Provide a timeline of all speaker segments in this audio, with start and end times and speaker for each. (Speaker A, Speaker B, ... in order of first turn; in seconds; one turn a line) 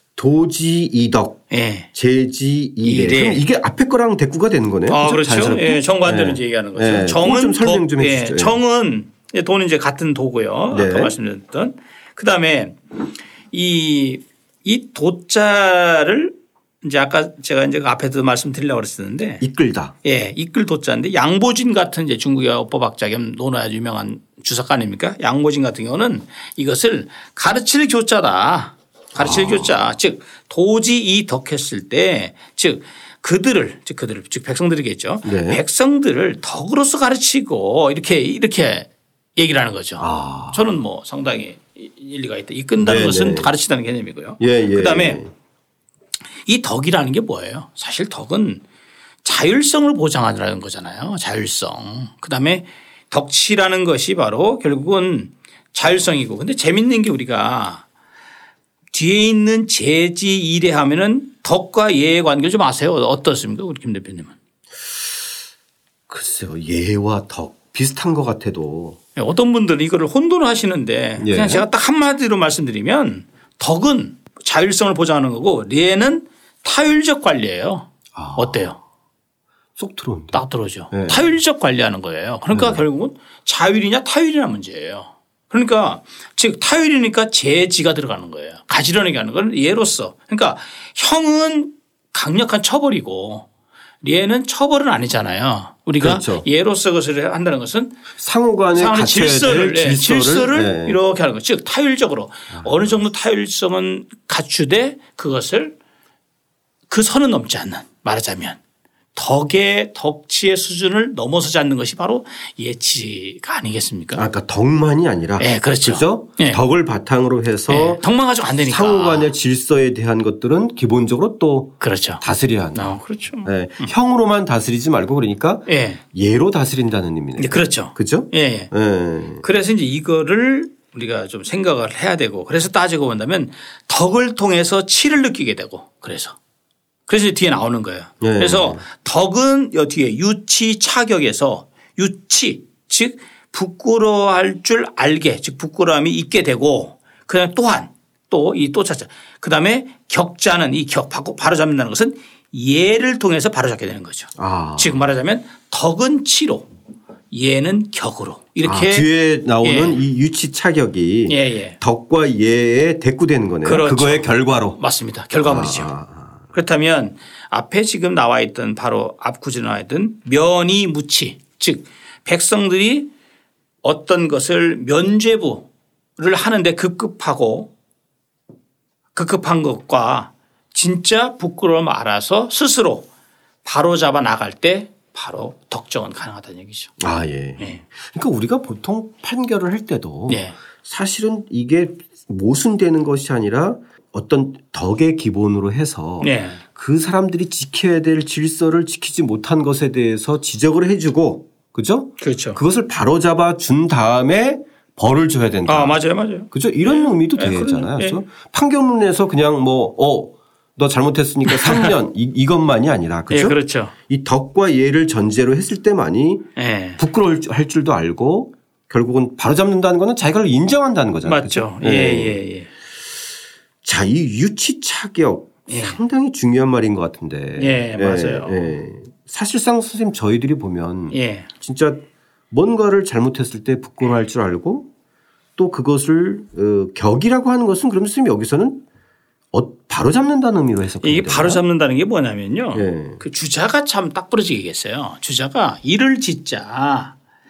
Speaker A: 0.2-1.4
Speaker B: 1.5-1.9
Speaker A: 1.9-8.6
Speaker B: 2.8-3.5
Speaker B: 4.9-19.4
Speaker A: 10.7-11.2
Speaker A: 19.4-19.9
Speaker B: 20.0-45.2
Speaker A: 29.1-29.9
Speaker A: 35.2-35.6
Speaker A: 40.0-40.8
Speaker A: 42.8-43.5
Speaker A: 44.4-45.3
Speaker B: 46.5-48.6
Speaker B: 49.2-57.9
Speaker B: 58.9-64.3
Speaker A: 66.1-69.0
Speaker B: 69.2-78.8
Speaker A: 71.2-71.7
Speaker A: 78.1-78.8
Speaker A: 79.8-81.4
Speaker B: 80.3-93.5
Speaker A: 82.5-82.8
Speaker B: 94.0-98.0
Speaker A: 96.0-96.5
Speaker A: 98.2-101.0
Speaker B: 98.7-105.8
Speaker A: 102.5-103.0
Speaker B: 106.9-108.6
Speaker B: 109.1-114.2
Speaker A: 114.1-129.4
Speaker B: 115.4-116.6
Speaker B: 117.7-119.3
Speaker B: 121.8-122.2
Speaker B: 122.8-123.9
Speaker B: 125.7-126.0
Speaker B: 127.4-128.7
Speaker B: 129.4-136.4
Speaker B: 137.1-156.7
Speaker A: 138.2-138.8
Speaker A: 154.4-155.1
Speaker B: 157.3-159.1
Speaker A: 158.6-164.8
Speaker B: 159.6-160.0
Speaker B: 161.3-161.8
Speaker B: 163.6-165.9
Speaker A: 165.4-166.4
Speaker B: 166.5-173.1
Speaker B: 173.8-177.7
Speaker B: 179.1-183.1
Speaker B: 183.6-186.9
Speaker A: 187.0-216.5
Speaker B: 187.6-187.8
Speaker B: 190.3-190.6
Speaker B: 196.2-196.6
Speaker B: 202.2-202.6
Speaker B: 205.7-208.2
Speaker B: 211.5-211.9
Speaker B: 213.3-213.9
Speaker B: 216.6-217.0
Speaker A: 217.0-222.4
Speaker B: 221.2-222.7
Speaker A: 223.8-234.9
Speaker B: 225.7-226.0
Speaker B: 227.6-228.7
Speaker B: 231.1-231.5
Speaker A: 235.6-238.8
Speaker A: 239.5-241.6
Speaker B: 241.0-247.2
Speaker A: 242.7-243.2